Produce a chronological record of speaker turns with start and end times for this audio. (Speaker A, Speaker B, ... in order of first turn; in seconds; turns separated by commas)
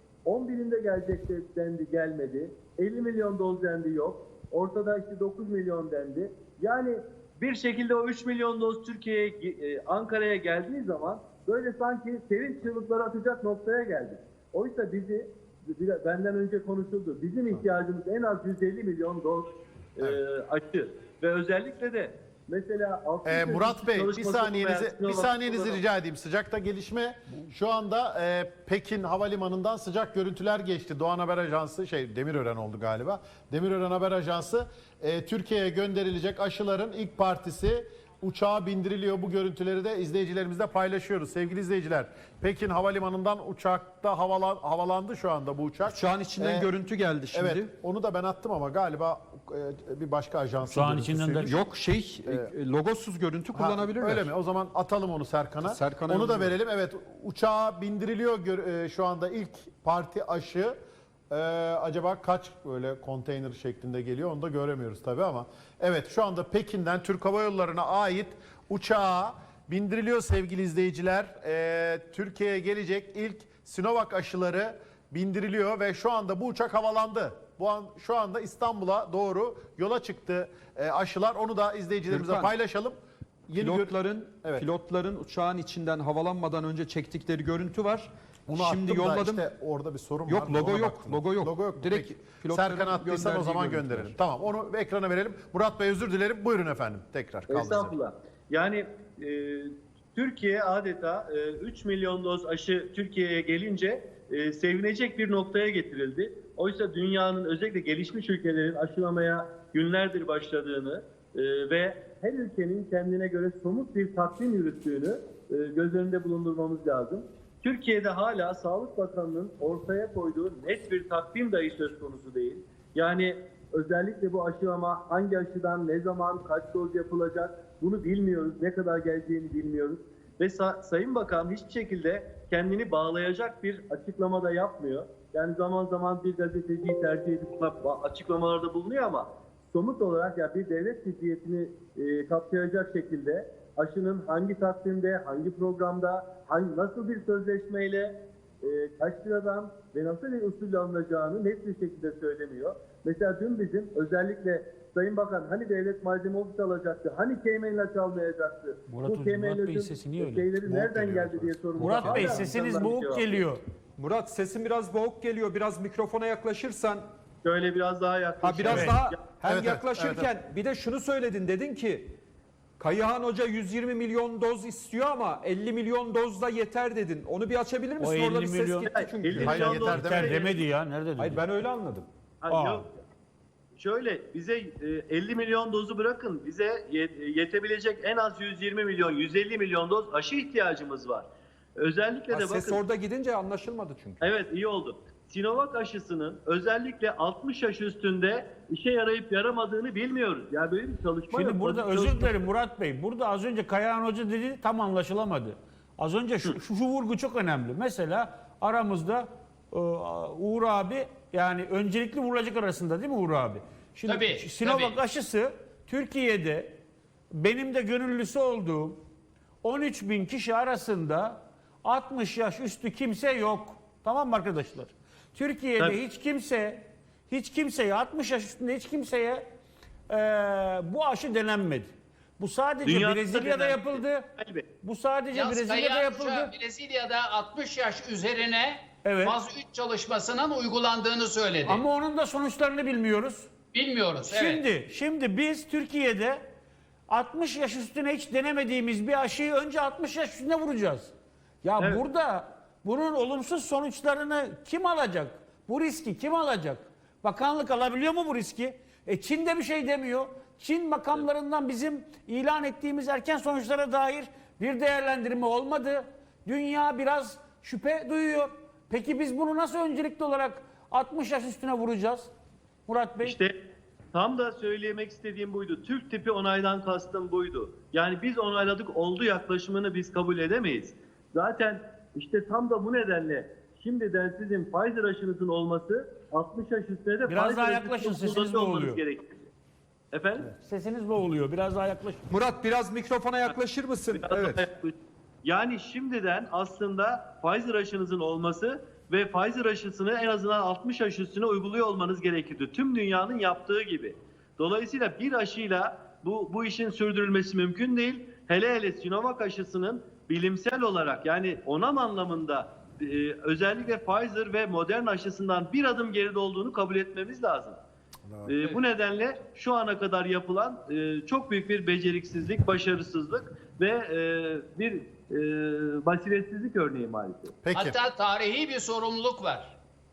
Speaker A: 0.3-25.8, Speaker B: 23.2-46.7, Speaker C: 45.8-47.7, Speaker B: 47.3-51.6, Speaker D: 50.6-51.5, Speaker C: 51.4-54.3, Speaker B: 53.5-60.8, Speaker C: 55.6-56.5, Speaker B: 61.3-83.0, Speaker C: 82.1-82.5, Speaker B: 83.5-84.7, Speaker C: 83.6-89.5, Speaker B: 88.5-97.9, Speaker C: 90.3-94.2, Speaker A: 97.5-163.5, Speaker D: 158.9-160.6, Speaker B: 160.6-161.7, Speaker D: 161.8-163.6, Speaker C: 161.9-162.2, Speaker C: 164.0-167.1, Speaker A: 167.4-169.2, Speaker C: 168.4-172.2, Speaker D: 168.7-169.0, Speaker B: 169.4-170.3, Speaker C: 172.8-180.0, Speaker D: 178.0-181.4, Speaker A: 178.9-180.7, Speaker B: 179.4-180.4, Speaker C: 181.2-182.1, Speaker A: 182.4-182.9, Speaker D: 182.5-182.9, Speaker A: 183.8-192.8, Speaker C: 192.3-194.3, Speaker A: 194.2-202.3, Speaker D: 201.3-216.8, Speaker E: 214.1-215.0, Speaker D: 217.3-219.0, Speaker D: 219.6-229.4, Speaker D: 230.1-234.3, Speaker A: 232.8-234.7, Speaker D: 234.8-236.5, Speaker E: 235.3-241.8, Speaker D: 239.0-239.4, Speaker D: 241.7-243.5, Speaker E: 243.7-244.6, Speaker D: 244.3-246.4, Speaker D: 247.1-272.3, Speaker A: 251.8-252.0, Speaker D: 272.9-273.4, Speaker A: 273.2-273.5, Speaker A: 274.1-289.5, Speaker D: 287.3-289.0, Speaker A: 290.1-290.5, Speaker D: 290.5-292.2, Speaker C: 292.3-294.6, Speaker A: 294.1-317.8, Speaker A: 318.4-327.5, Speaker B: 327.6-328.0, Speaker E: 327.7-329.8